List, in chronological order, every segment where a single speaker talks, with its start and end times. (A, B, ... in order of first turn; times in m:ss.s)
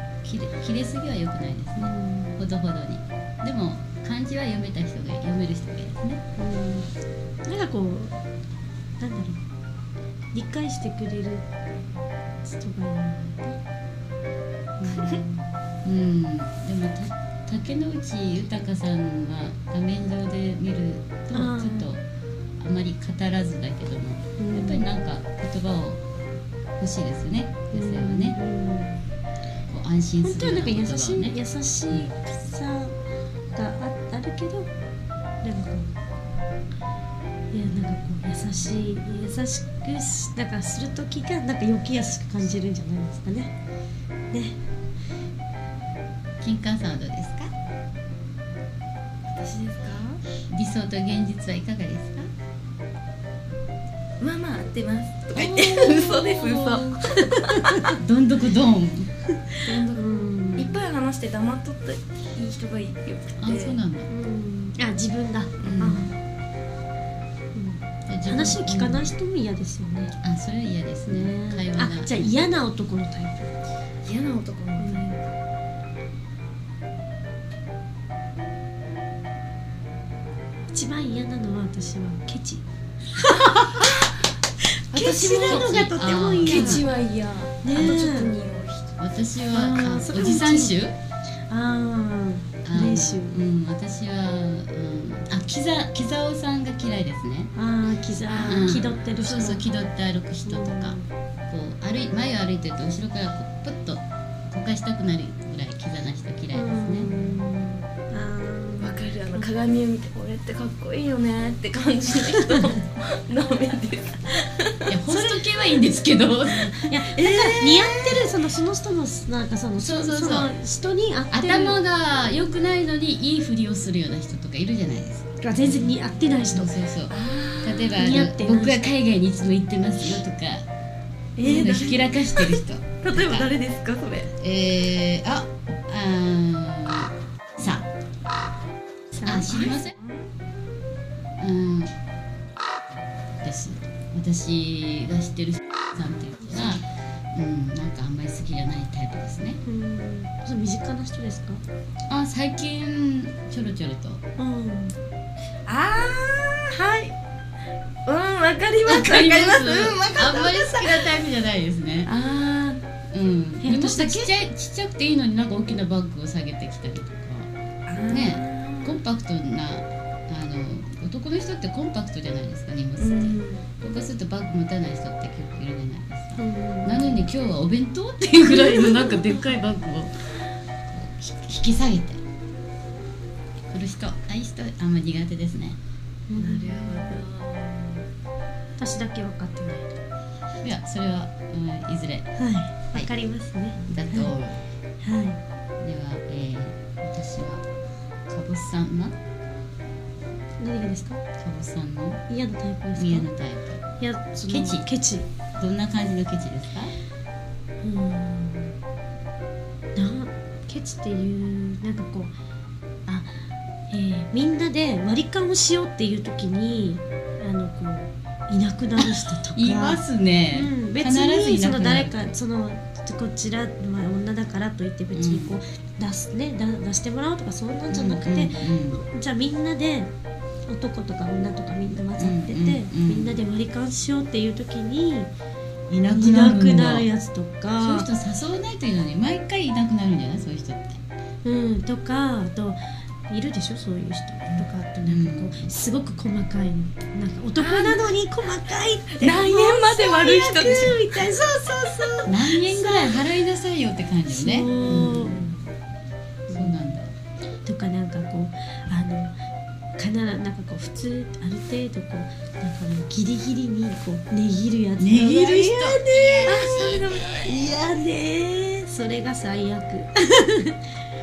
0:00.2-0:06.2 A
0:01.8-0:02.4 B
0:06.4-0:06.9 B
0:07.4-0:08.2 B
0:09.0-0:09.4 B
0:10.3-0:11.4 B
0:12.4-0:13.5 B
0:14.8-0:15.3 B
0:15.8-0:22.0 A
0:21.3-0:22.0 B
0:22.6-0:26.0 A
0:24.4-0:24.9 B
0:26.8-0:28.4 A
0:27.7-0:29.0 B
0:29.7-0:31.4 A
0:30.2-0:33.0 B
0:33.5-0:34.7 B
0:35.4-0:35.9 B
0:37.5-0:43.5 B
0:44.3-0:44.6 B
0:46.4-0:47.5 A
0:49.3-0:50.2 C
0:50.5-0:52.3 A
0:54.2-0:57.6 C
0:55.4-0:57.9 B
0:58.0-0:59.1 A
0:59.6-1:03.8 C
0:59.9-1:00.7 B
1:03.4-1:04.1 A
1:04.1-1:06.1 B
1:05.6-1:06.1 C
1:05.6-1:06.1 A
1:07.5-1:10.1 B
1:08.1-1:09.1 A
1:10.2-1:12.4 A
1:11.1-1:13.5 B
1:14.0-1:15.1 C
1:14.8-1:15.2 B
1:20.7-1:22.6 B
1:23.1-1:23.9 B
1:23.2-1:24.1 C
1:24.6-1:26.9 B
1:24.9-1:28.9 C
1:25.4-1:26.9 A
1:27.6-1:28.3 B
1:29.0-1:31.0 A
1:29.5-1:30.8 B
1:31.5-1:33.4 B
1:32.6-1:37.5 A
1:37.6-1:39.8 B
1:38.3-1:47.1 A
1:40.5-1:41.1 B
1:46.5-1:49.5 B
1:48.8-1:54.9 C
1:54.9-1:58.2 A
1:55.1-1:55.4 B
1:56.8-2:01.8 B
1:59.8-2:00.5 A
2:01.3-2:05.8 A
2:05.4-2:06.7 B
2:06.4-2:10.7 A
2:07.1-2:08.0 C
2:08.0-2:08.8 B
2:11.4-2:14.3 C
2:11.4-2:13.5 A
2:11.4-2:11.9 B
2:14.4-2:17.9 A
2:19.1-2:19.5 B
2:19.2-2:20.0 A
2:19.3-2:20.3 C
2:21.4-2:21.9 A
2:23.4-2:29.6 A
2:29.6-2:31.6 B
2:32.1-2:34.2 A
2:34.4-2:35.0 B
2:35.7-2:37.1 C
2:38.1-2:41.1 C
2:38.9-2:42.1 A
2:42.0-2:42.8 C
2:43.1-2:47.5 A
2:43.6-2:44.3 B
2:47.9-2:49.0 B
2:48.1-3:00.1 A
2:53.0-2:53.7 C
2:56.4-2:57.1 B
3:00.9-3:02.2 A
3:03.7-3:05.8 A
3:06.3-3:07.2 B
3:06.4-3:08.0 C
3:08.8-3:10.0 B
3:10.6-3:12.3 A
3:12.4-3:14.4 B
3:13.8-3:14.6 A
3:15.0-3:15.4 B
3:15.8-3:17.6 A
3:18.3-3:19.2 A
3:20.6-3:21.2 B
3:21.4-3:22.2 A
3:22.3-3:23.3 B
3:23.0-3:23.8 A
3:24.0-3:25.3 B
3:24.5-3:24.9 A
3:25.6-3:26.9 A
3:27.8-3:28.8 B
3:30.0-3:32.4 B
3:33.1-3:33.3 B
3:33.9-3:50.1 B
3:39.0-3:42.4 A
3:45.1-3:45.6 A
3:47.9-3:49.0 A
3:50.7-3:55.3 B
3:52.2-3:53.4 A
3:55.9-3:57.1 A
3:56.1-3:58.1 B
3:57.8-4:01.0 A
4:01.4-4:13.2 B
4:05.0-4:05.7 A
4:07.6-4:08.0 C
4:09.1-4:11.3 C
4:12.2-4:15.4 A
4:14.3-4:15.5 B
4:14.8-4:15.6 C
4:16.5-4:16.9 B
4:16.5-4:17.1 A
4:17.6-4:19.4 B
4:20.0-4:26.5 B
4:25.0-4:27.2 A
4:26.5-4:27.7 C
4:27.4-4:30.9 B